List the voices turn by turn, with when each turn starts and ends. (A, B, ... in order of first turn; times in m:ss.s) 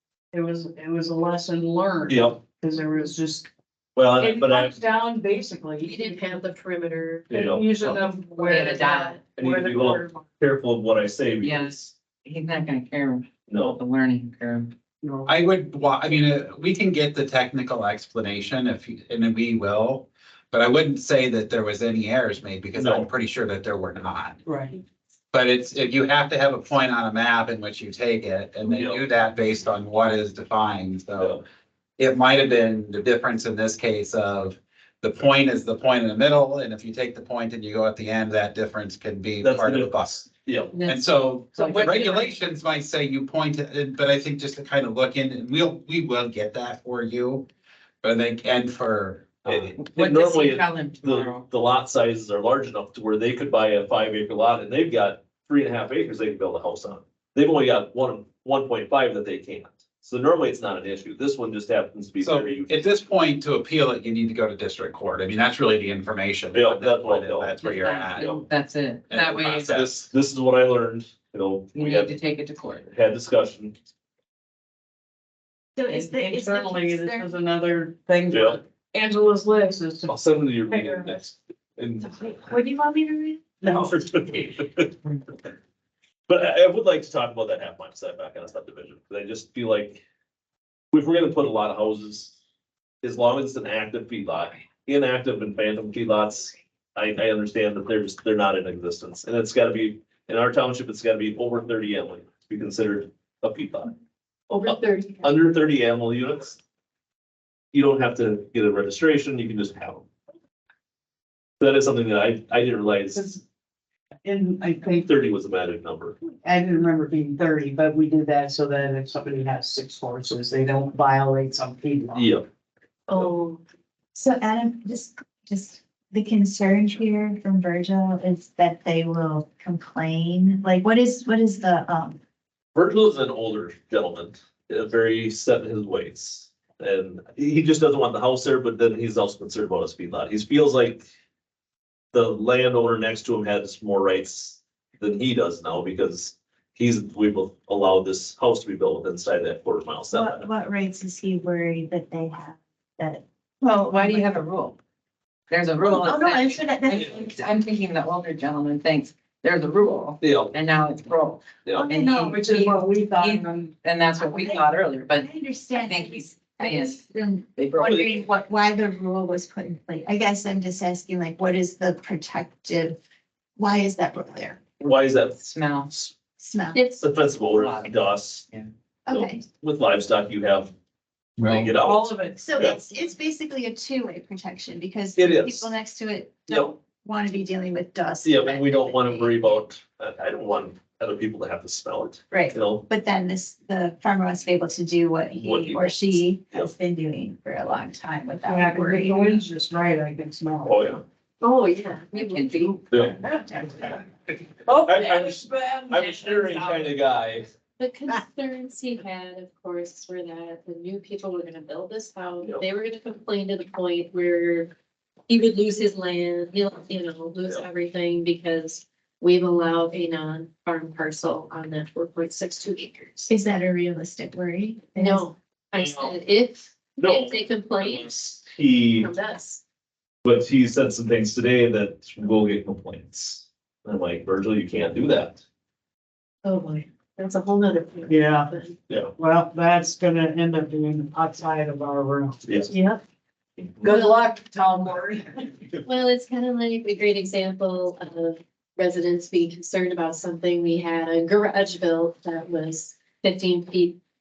0:00.3-0:03.5 A
0:02.1-0:02.4 B
0:03.9-0:04.8 B
0:04.2-0:06.4 A
0:05.8-0:07.3 C
0:07.3-0:07.8 B
0:07.3-0:10.3 A
0:07.8-0:09.2 C
0:08.4-0:09.2 D
0:09.4-0:11.9 B
0:11.4-0:14.7 D
0:13.5-0:13.8 B
0:15.0-0:15.3 A
0:15.2-0:24.4 E
0:22.7-0:23.1 B
0:24.4-0:24.8 A
0:25.3-0:31.4 E
0:28.7-0:29.0 B
0:32.0-0:47.5 E
0:39.4-0:40.7 B
0:40.7-0:41.8 C
0:41.5-0:42.3 D
0:48.0-0:49.8 E
0:49.4-1:02.7 B
0:49.8-0:51.4 D
1:02.2-1:08.3 E
1:06.5-1:07.5 B
1:07.6-1:09.8 D
1:08.2-1:08.4 B
1:09.1-1:10.1 E
1:09.7-1:12.2 B
1:11.7-1:12.8 D
1:12.9-1:13.8 B
1:15.8-1:17.4 F
1:15.9-1:21.2 A
1:18.3-1:18.6 B
1:20.1-1:22.5 B
1:22.3-1:23.5 F
1:23.6-1:24.0 A
1:23.6-1:25.0 B
1:26.3-1:30.0 B
1:30.9-1:32.3 B
1:33.0-1:44.0 B
1:44.5-1:45.3 C
1:44.6-1:46.6 B
1:47.7-1:50.1 B
1:51.6-1:53.2 B
1:53.1-1:53.4 A
1:54.2-1:55.1 A
1:54.9-1:56.2 B
1:56.3-2:02.3 A
2:02.1-2:02.4 B
2:03.1-2:03.6 C
2:04.1-2:12.2 F
2:12.7-2:21.0 B
2:22.1-2:30.5 B
2:30.1-2:34.3 F
2:33.6-2:34.8 D
2:35.5-2:47.0 D
2:35.9-2:37.2 F
2:40.2-2:40.6 B
2:41.8-2:42.3 F
2:42.2-2:43.5 A
2:44.2-2:53.0 F
2:47.6-2:48.1 D
2:53.6-2:54.6 F
2:54.8-2:55.4 B
2:55.4-2:55.9 D
2:56.4-2:56.8 F
2:56.7-2:57.0 C
2:57.0-2:58.4 B
2:57.5-2:58.7 D
2:59.0-2:59.4 F
2:59.1-3:00.7 B
3:01.4-3:02.8 B
3:01.8-3:02.4 A
3:02.4-3:09.4 F
3:05.2-3:05.7 B
3:06.5-3:06.7 B
3:08.2-3:12.9 B
3:12.3-3:19.4 F
3:15.4-3:16.7 B
3:18.4-3:21.0 A
3:20.6-3:21.0 B
3:21.4-3:22.8 C
3:22.1-3:23.0 D
3:22.9-3:23.2 B
3:23.3-3:23.8 A
3:24.6-3:26.9 A
3:24.7-3:27.5 B
3:27.8-3:34.7 C
3:32.4-3:32.6 B
3:35.3-3:43.3 C
3:43.3-3:45.3 F
3:45.0-3:48.2 C
3:45.8-3:46.2 B
3:47.0-3:49.1 B
3:49.0-3:49.6 C
3:50.2-3:55.4 B
3:56.4-3:58.8 C
3:58.1-3:58.5 A
3:58.9-3:59.1 B
3:59.2-4:03.0 A
4:02.4-4:02.7 B
4:03.8-4:05.6 A
4:03.9-4:04.2 C
4:05.8-4:14.0 C